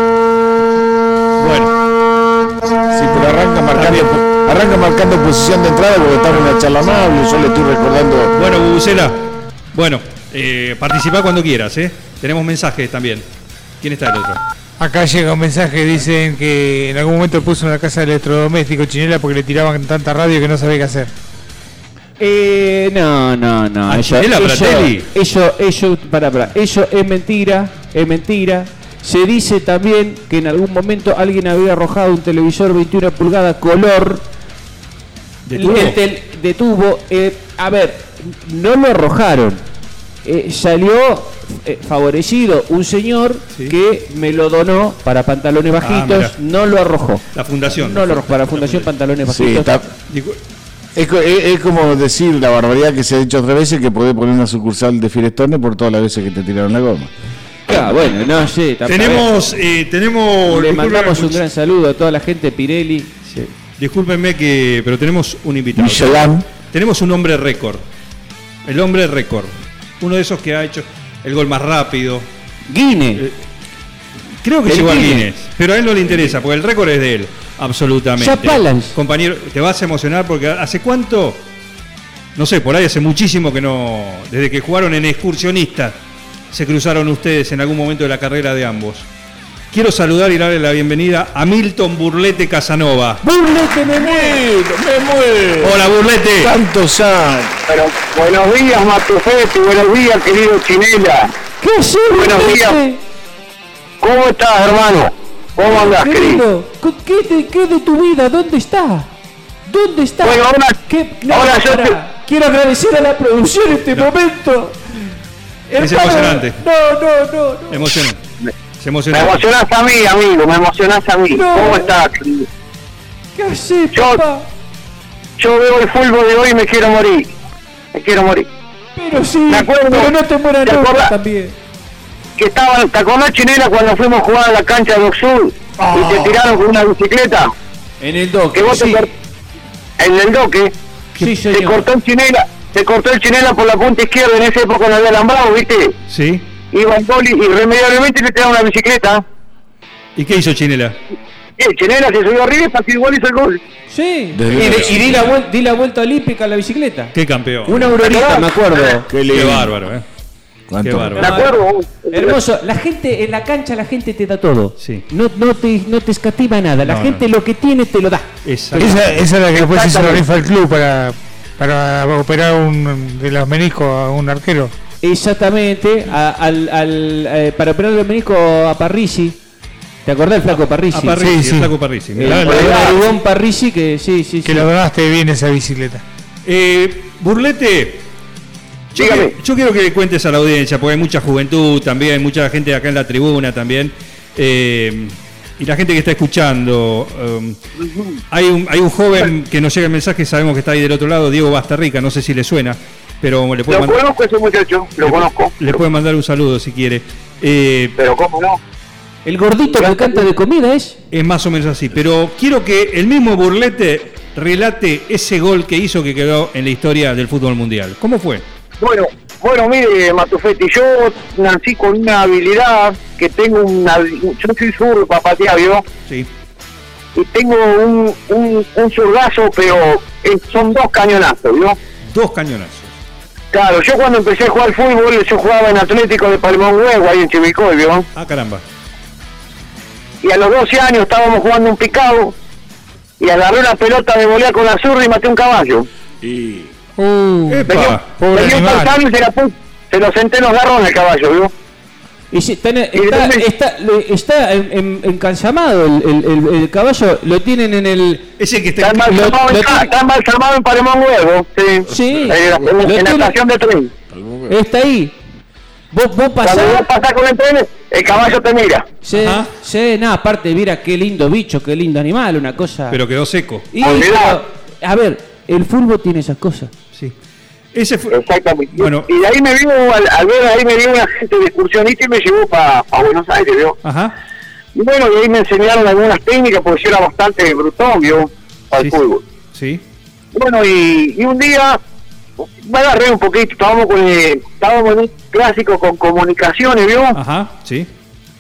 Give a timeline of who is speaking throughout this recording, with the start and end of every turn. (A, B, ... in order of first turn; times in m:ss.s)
0:01.4-0:01.7 A
0:02.9-0:08.4 B
0:03.7-0:04.1 A
0:08.3-0:09.2 A
0:09.7-0:13.3 A
0:13.8-0:14.4 A
0:14.8-0:21.1 C
0:22.2-0:34.2 D
0:23.9-0:25.1 A
0:35.5-0:36.0 A
0:35.6-0:39.6 D
0:40.2-0:49.9 D
0:45.8-0:46.4 A
0:47.3-0:48.9 A
0:49.3-0:49.9 B
0:50.1-0:50.4 A
0:51.0-0:57.1 B
0:57.7-0:59.3 D
0:58.9-1:01.4 A
1:00.5-1:03.2 D
1:03.3-1:07.9 A
1:05.8-1:06.4 B
1:08.6-1:12.3 A
1:12.7-1:13.3 D
1:14.4-1:21.4 A
1:14.7-1:15.3 D
1:18.2-1:19.0 D
1:22.4-1:26.0 A
1:26.5-1:29.1 A
1:29.7-1:33.2 A
1:33.2-1:34.4 D
1:33.9-1:37.6 B
1:35.6-1:36.5 A
1:37.7-1:41.4 E
1:41.6-1:43.0 D
1:42.1-1:42.8 E
1:44.0-1:46.4 E
1:45.6-1:49.1 D
1:49.7-1:55.1 D
1:50.2-1:52.0 E
1:55.7-1:57.9 D
1:55.8-1:56.6 A
1:57.7-1:58.2 A
1:58.8-1:59.4 A
1:59.1-2:02.5 E
2:01.3-2:01.9 D
2:03.4-2:04.5 D
2:03.9-2:04.2 E
2:05.4-2:07.3 E
2:07.9-2:08.5 E
2:09.0-2:11.5 D
2:09.5-2:11.1 E
2:12.4-2:17.5 E
2:15.8-2:16.4 D
2:18.0-2:19.1 D
2:18.6-2:19.1 E
2:20.0-2:20.7 E
2:21.2-2:21.9 D
2:21.5-2:26.0 E
2:26.1-2:26.4 A
2:26.7-2:29.2 E
2:30.2-2:31.0 A
2:31.6-2:33.6 E
2:33.9-2:37.1 D
2:34.3-2:35.3 B
2:34.5-2:34.9 A
2:37.1-2:37.9 A
2:37.7-2:39.1 D
2:37.9-2:39.0 E
2:39.1-2:39.9 B
2:39.3-2:40.0 A
2:40.7-2:41.4 B
2:40.8-2:41.4 A
2:41.2-2:42.4 E
2:41.2-2:48.3 D
2:44.8-2:45.0 A
2:46.8-2:47.2 A
2:48.4-2:49.2 A
2:48.8-2:54.7 C
2:49.5-2:50.2 E
2:55.0-2:59.4 D
3:00.0-3:01.3 D
3:00.9-3:02.8 A
3:01.2-3:01.7 C
3:02.2-3:04.7 D
3:02.3-3:03.0 E
3:04.4-3:06.0 C
3:06.4-3:08.0 A
3:08.9-3:17.6 A
3:09.0-3:09.3 E
3:17.8-3:18.2 E
3:18.3-3:24.0 A
3:23.7-3:25.8 E
3:25.0-3:28.0 A
3:28.0-3:28.6 E
3:29.3-3:31.0 D
3:29.8-3:30.2 E
3:31.1-3:38.4 A
3:38.8-3:45.8 E
3:47.2-3:51.8 E
3:52.1-3:52.9 A
3:53.5-3:58.1 E
3:58.2-3:58.6 A
4:00.2-4:02.4 E
4:03.2-4:05.9 E
4:06.2-4:06.7 B
4:07.0-4:09.0 C
4:07.5-4:08.0 A
4:07.7-4:11.5 E
4:12.3-4:18.3 D
4:13.0-4:13.4 E
4:18.4-4:19.4 A
4:18.8-4:23.9 E
4:19.1-4:19.9 D
4:21.9-4:23.4 D
4:24.1-4:24.6 B
4:24.5-4:25.2 D
4:25.9-4:26.8 D
4:26.4-4:28.9 E
4:29.0-4:33.0 D
4:29.1-4:29.5 A
4:32.9-4:33.7 A
4:33.7-4:36.7 D
4:33.8-4:34.4 E
4:37.7-4:38.2 A
4:38.1-4:43.8 E
4:38.8-4:39.1 A
4:43.8-4:44.2 A
4:44.8-4:49.2 E
4:49.5-4:49.8 A
4:50.3-4:51.8 E
4:52.6-4:57.2 E
4:57.1-4:57.9 A